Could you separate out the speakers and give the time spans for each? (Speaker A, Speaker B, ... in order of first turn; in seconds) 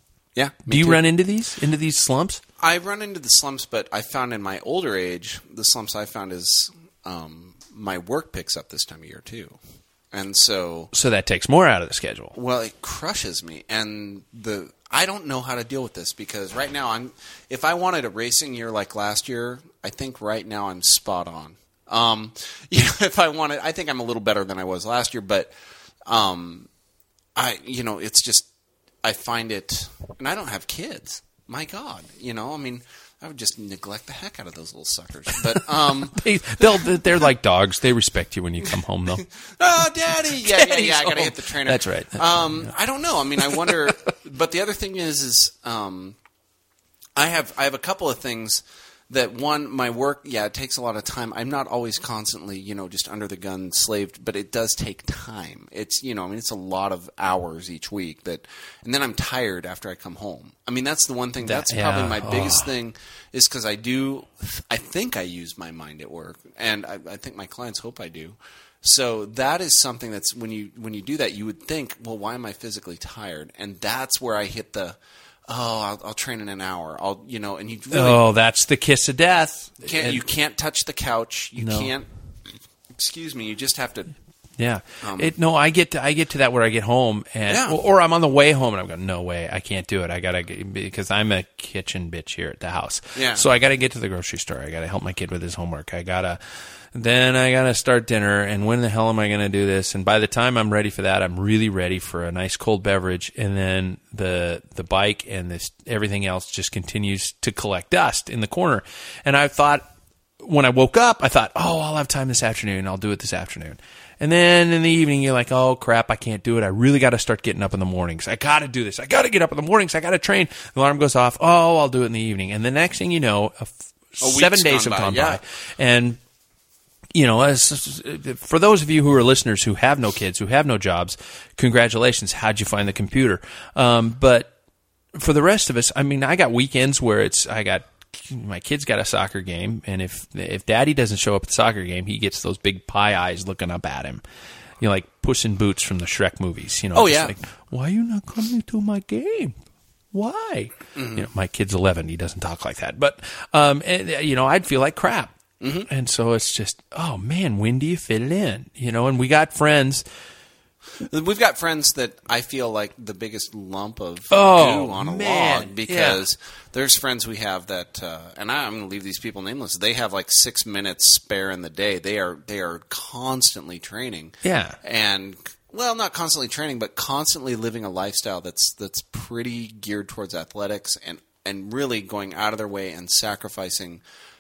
Speaker A: 0.3-1.0, 2.6-9.6, 10.1-10.9, 12.3-25.5, 26.1-26.7, 27.4-28.5, 29.0-36.9, 39.2-46.2, 47.2-78.2, 79.8-82.1, 82.9-84.1, 85.0-85.3, 87.5-87.8, 93.2-93.5, 124.2-125.4, 146.9-147.3, 150.9-151.3, 155.6-155.9, 161.0-184.0
Speaker B: 0.7-2.4, 10.9-12.3, 35.5-39.3, 40.3-42.7, 43.4-43.9, 61.4-62.7, 77.9-80.2, 81.6-81.9, 84.6-96.4, 96.9-109.9, 110.4-126.2, 127.2-134.5, 135.2-144.2, 144.8-149.6, 150.1-155.3, 155.9-160.1, 164.3-166.2, 174.4-174.8